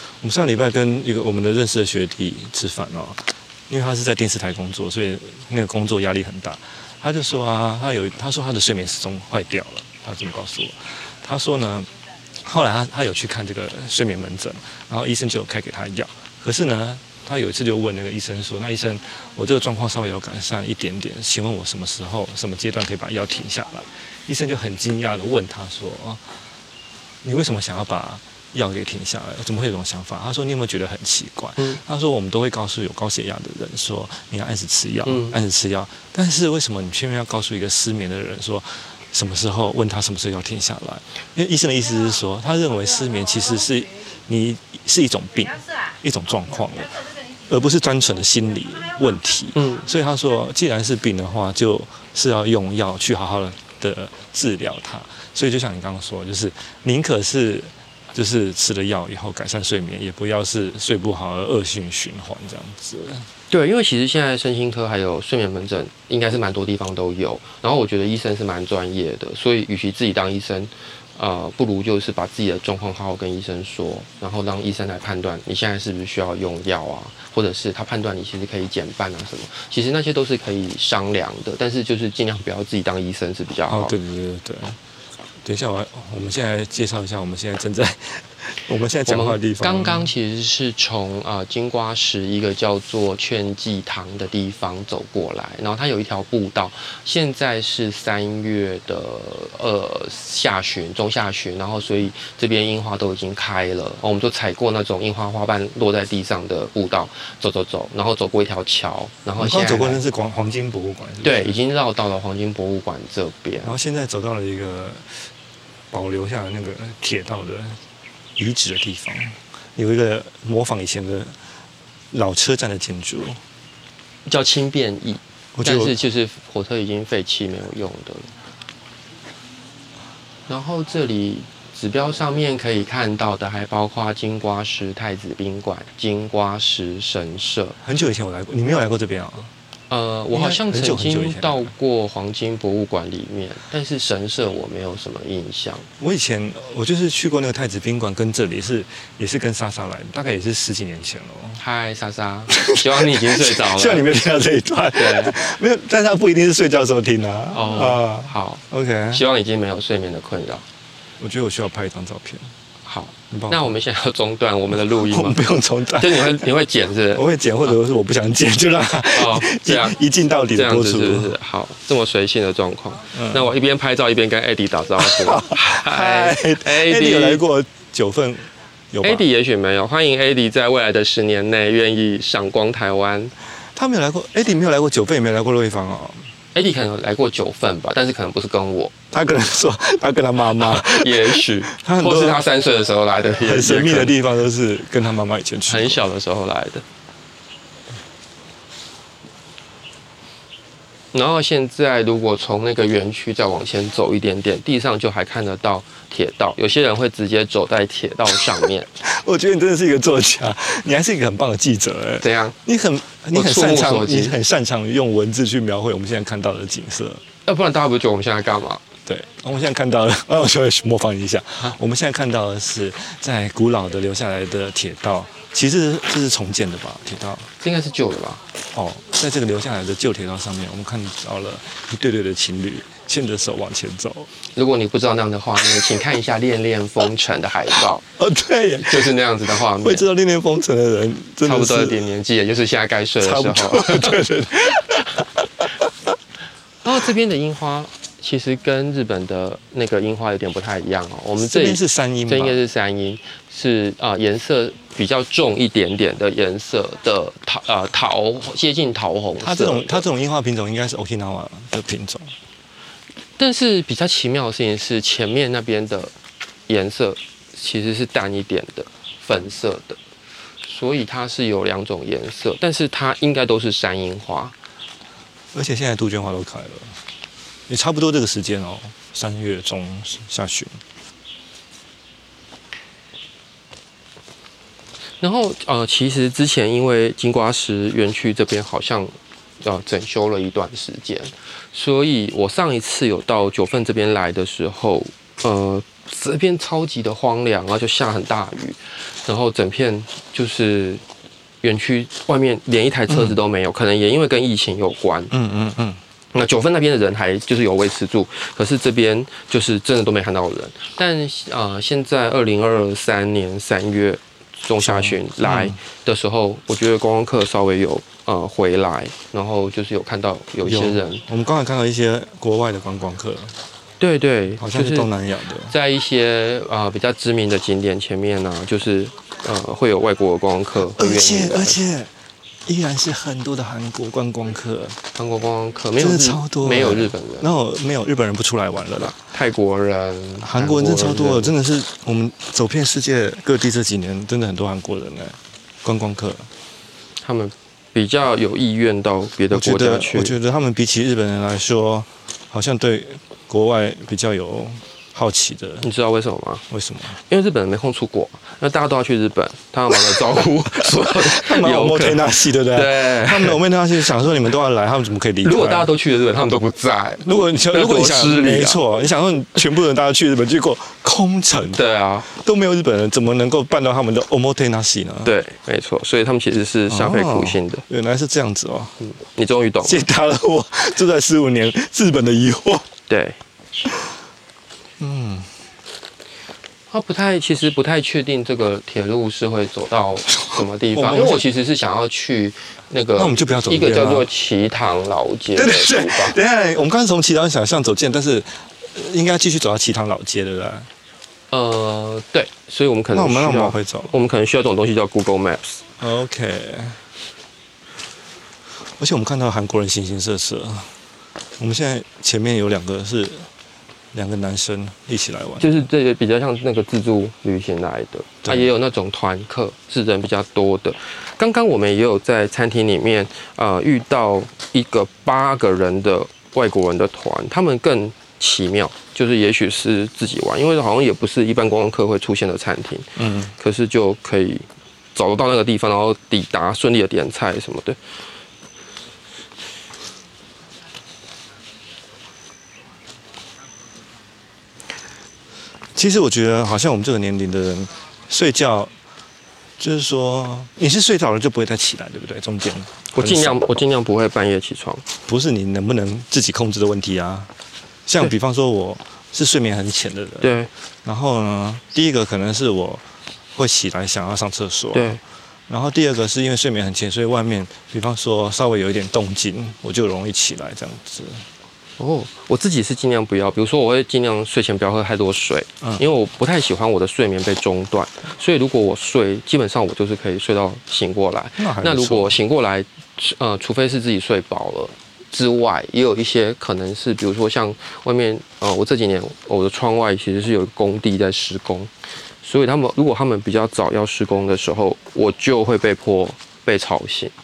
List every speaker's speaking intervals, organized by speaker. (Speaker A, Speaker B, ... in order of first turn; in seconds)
Speaker A: 0.2-11.9, 12.4-26.2, 27.2-63.3, 83.7-84.8, 85.4-90.1, 109.4-111.6, 113.6-115.3, 115.9-117.8, 118.4-121.4, 122.1-123.4, 125.5-126.0, 137.8-139.5, 140.3-141.7, 146.0-151.6, 152.5-159.2, 161.2-162.5, 163.3-163.8, 164.7-166.4, 167.1-171.3, 173.1-173.5, 175.0-179.2, 183.7-186.3, 189.1-192.4, 193.4-196.0, 209.0-217.2, 219.1-227.5, 228.7-234.3, 238.2-242.0, 243.2-245.4, 251.4-252.6, 259.4-262.3, 275.5-276.9, 277.7-280.8, 303.1-303.4, 305.3-306.0, 314.8-315.8, 320.6-323.5, 324.6-325.7, 330.8-332.1, 332.6-335.0, 336.0-339.1, 340.4-346.5, 349.5-355.9, 356.7-357.2, 360.8-365.9, 367.2-375.3, 376.9-378.9, 379.8-382.9, 385.0-385.5, 390.5-391.4, 393.2-394.3, 395.6-400.9, 403.1-404.1, 406.0-407.0, 409.0-410.9, 411.6-413.5, 414.1-415.9, 418.4-418.7, 433.2-433.5, 446.0-448.9, 449.8-453.8, 455.3-457.5, 458.1-460.5, 461.0-463.0, 463.6-465.2, 465.7-471.4, 481.6-482.4
Speaker B: 35.1-35.4, 49.5-49.8, 63.5-84.0, 89.1-110.0, 111.2-113.7, 124.2-128.3, 130.5-137.8, 139.9-145.9, 151.6-154.1, 154.9-155.4, 157.5-160.6, 162.9-165.4, 166.0-167.8, 169.1-170.0, 170.6-177.4, 179.0-183.3, 186.6-188.9, 190.6-194.2, 195.7-196.8, 201.1-208.9, 212.2-212.6, 213.3-214.4, 217.5-218.8, 227.6-228.4, 234.5-238.1, 238.8-240.1, 241.4-244.2, 246.8-260.1, 263.4-266.1, 266.7-270.0, 270.6-274.6, 285.2-301.0, 301.6-305.3, 306.3-321.2, 324.0-325.1, 325.7-331.8, 335.1-337.5, 339.0-341.5, 347.2-350.3, 355.8-356.6, 357.1-363.6, 365.4-368.8, 371.7-372.3, 375.2-377.8, 379.0-380.0, 383.1-383.4, 386.9-396.4, 401.5-405.8, 415.6-438.0, 453.1-455.0, 460.4-460.7, 464.9-465.2, 472.0-491.9, 492.4-497.3